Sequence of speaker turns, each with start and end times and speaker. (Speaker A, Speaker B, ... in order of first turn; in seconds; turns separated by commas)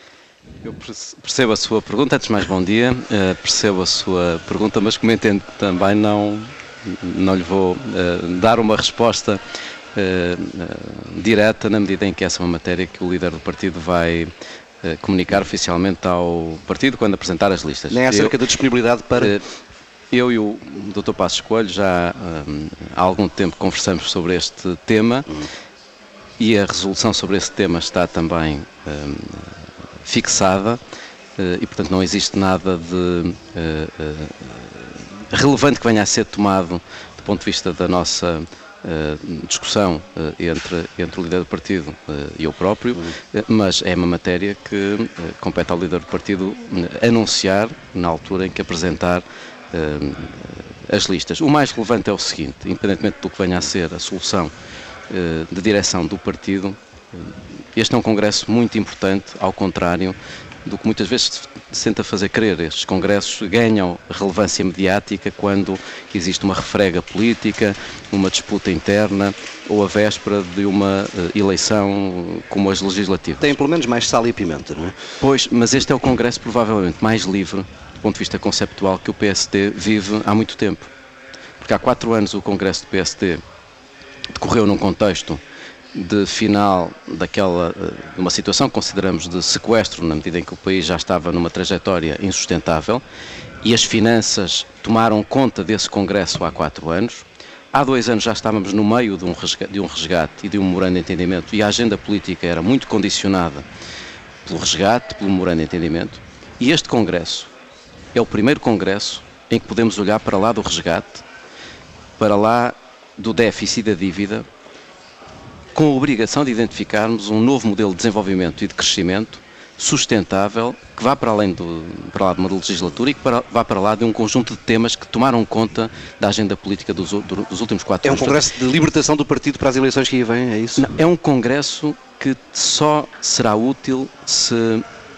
Speaker A: 0.6-9.4, Speaker A: 9.9-14.3, Speaker A: 14.8-18.4, Speaker B: 17.9-19.4, Speaker A: 19.2-19.4, Speaker A: 20.1-25.4, Speaker A: 26.4-30.8, Speaker A: 31.4-54.5, Speaker A: 55.1-73.5, Speaker B: 73.4-74.9, Speaker A: 75.2-80.9, Speaker A: 81.6-83.4, Speaker A: 84.3-85.4, Speaker A: 85.9-93.0, Speaker A: 93.6-103.7, Speaker A: 104.4-107.5, Speaker A: 108.1-111.2, Speaker A: 112.2-114.5, Speaker A: 115.7-128.5, Speaker B: 128.0-130.9, Speaker A: 130.8-134.8